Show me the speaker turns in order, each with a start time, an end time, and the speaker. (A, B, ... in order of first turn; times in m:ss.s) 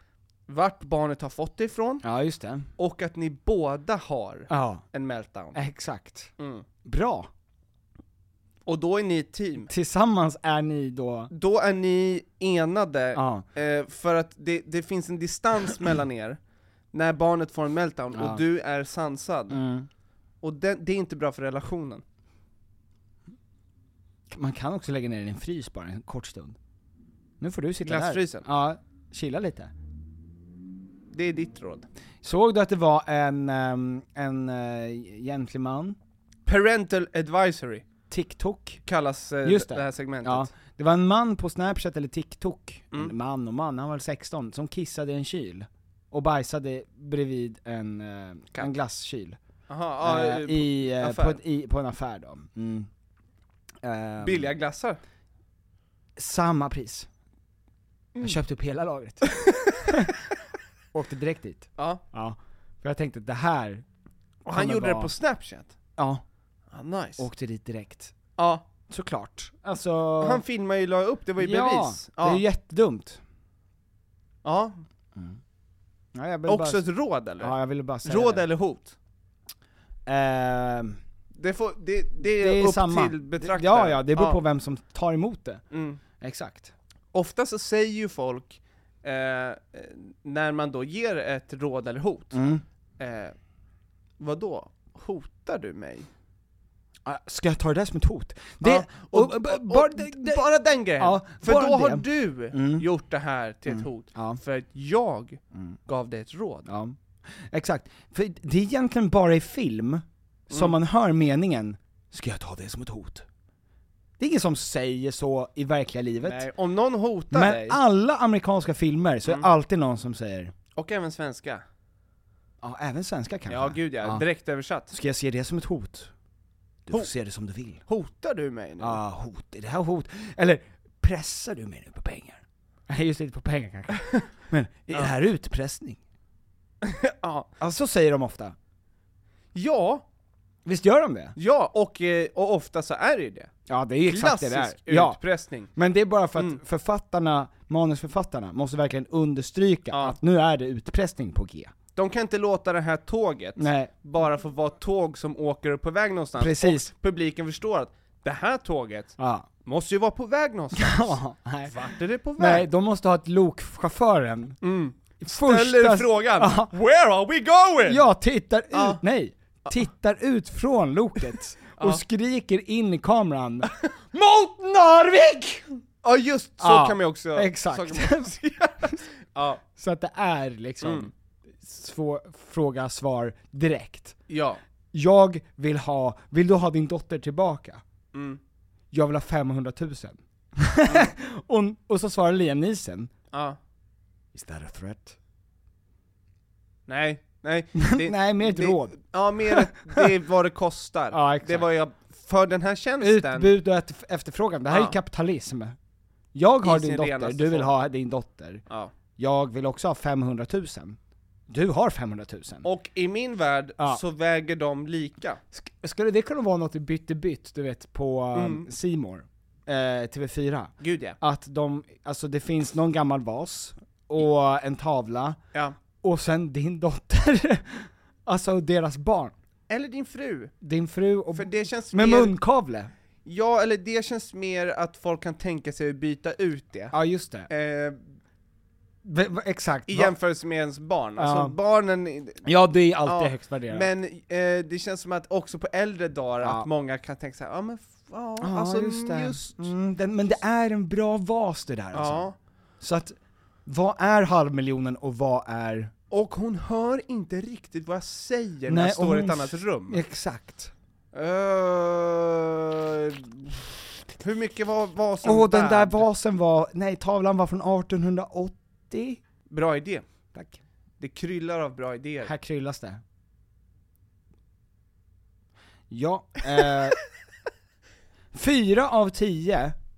0:00.5-0:02.0 A
0:02.0-0:02.6 B
0:02.8-0:05.6 A
0:04.5-0:04.8 B
0:05.5-0:06.3 B
0:06.4-0:06.6 A
0:06.8-0:07.3 B
0:08.7-0:09.7 A
0:09.6-0:11.3 B
0:11.3-0:16.4 A
0:13.1-0:13.4 B
0:16.9-0:19.6 A
0:18.1-0:18.4 B
0:19.5-0:19.9 B
0:20.4-0:22.0 A
0:24.3-0:26.6 B
0:27.4-0:29.7 B
0:27.8-0:28.4 A
0:31.1-0:31.9 A
0:32.2-0:36.0 B
0:36.4-0:37.8 A
0:38.1-0:38.8 B
0:38.8-0:40.5 A
0:39.4-0:49.4 B
0:49.7-0:51.4 A
0:50.0-0:52.9 B
0:53.8-0:54.5 B
0:54.2-0:55.0 A
0:56.2-0:57.1 B
0:58.2-1:00.1 B
0:59.5-0:59.9 A
1:00.9-1:03.8 B
1:01.8-1:02.0 A
1:04.4-1:05.1 B
1:04.4-1:05.7 A
1:06.0-1:06.2 B
1:06.7-1:07.3 A
1:07.2-1:08.1 B
1:08.4-1:08.6 A
1:08.9-1:10.4 B
1:10.2-1:12.4 A
1:11.4-1:13.2 B
1:14.4-1:14.8 A
1:16.1-1:16.8 B
1:16.5-1:18.9 A
1:17.4-1:18.4 B
1:20.0-1:21.0 B
1:21.3-1:24.4 A
1:22.2-1:25.6 B
1:25.7-1:26.0 A
1:26.2-1:26.7 B
1:27.1-1:32.4 A
1:32.3-1:32.6 B
1:33.0-1:33.4 A
1:34.2-1:36.1 A
1:37.0-1:40.4 B
1:38.6-1:46.7 A
1:41.0-1:42.8 B
1:43.7-1:44.4 B
1:46.7-1:53.2 B
1:50.5-1:50.8 A
1:54.2-1:56.4 B
1:56.2-1:57.8 A
1:57.3-2:00.5 B
2:00.8-2:01.6 A
2:02.6-2:04.2 B
2:03.5-2:04.9 A
2:04.9-2:06.1 B
2:06.9-2:07.8 B
2:07.9-2:09.0 A
2:08.8-2:16.0 B
2:16.8-2:17.5 A
2:17.6-2:18.6 B
2:19.5-2:20.0 A
2:20.6-2:21.3 B
2:21.4-2:23.5 A
2:23.7-2:25.2 B
2:24.1-2:25.7 A
2:25.7-2:31.7 B
2:29.9-2:30.2 A
2:32.0-2:42.7 A
2:33.6-2:33.9 B
2:36.4-2:36.9 B
2:39.2-2:39.5 B
2:40.7-2:44.6 B
2:44.6-2:48.0 A
2:45.2-2:46.7 B
2:47.8-2:55.8 B
2:48.7-2:49.0 A
2:51.8-2:52.0 A
2:56.0-2:59.6 A
2:56.6-2:58.3 B
2:59.8-3:04.2 B
3:00.8-3:01.1 A
3:04.3-3:04.6 A
3:04.9-3:07.8 B
3:08.1-3:08.4 A
3:08.9-3:13.1 B
3:13.3-3:13.6 A
3:14.3-3:15.2 B
3:16.9-3:23.5 A
3:17.8-3:20.1 B
3:21.1-3:21.7 B
3:23.0-3:25.8 B
3:24.7-3:25.0 A
3:26.3-3:28.6 B
3:26.6-3:27.7 A
3:29.2-3:31.0 B
3:31.5-3:32.6 B
3:32.6-3:35.4 A
3:35.5-3:45.4 B
3:38.3-3:38.7 A
3:40.8-3:41.2 A
3:46.0-3:49.3 B
3:49.7-3:50.5 A
3:50.6-3:52.9 B
3:51.3-3:52.4 A
3:53.2-3:56.9 A
3:56.9-3:57.5 B
3:57.5-3:58.0 A
3:59.0-4:00.1 B
3:59.9-4:02.4 A
4:01.2-4:01.6 B
4:02.4-4:03.9 B
4:03.0-4:09.7 A
4:06.4-4:06.7 B
4:08.4-4:12.2 B
4:11.9-4:12.4 A
4:12.8-4:15.9 B
4:16.1-4:20.0 A
4:18.7-4:20.7 B
4:21.1-4:26.0 A
4:25.2-4:29.2 B
4:29.5-4:30.0 A
4:30.3-4:30.6 B
4:31.0-4:32.3 A
4:32.2-4:33.0 B
4:35.9-4:37.0 B
4:38.3-4:39.8 B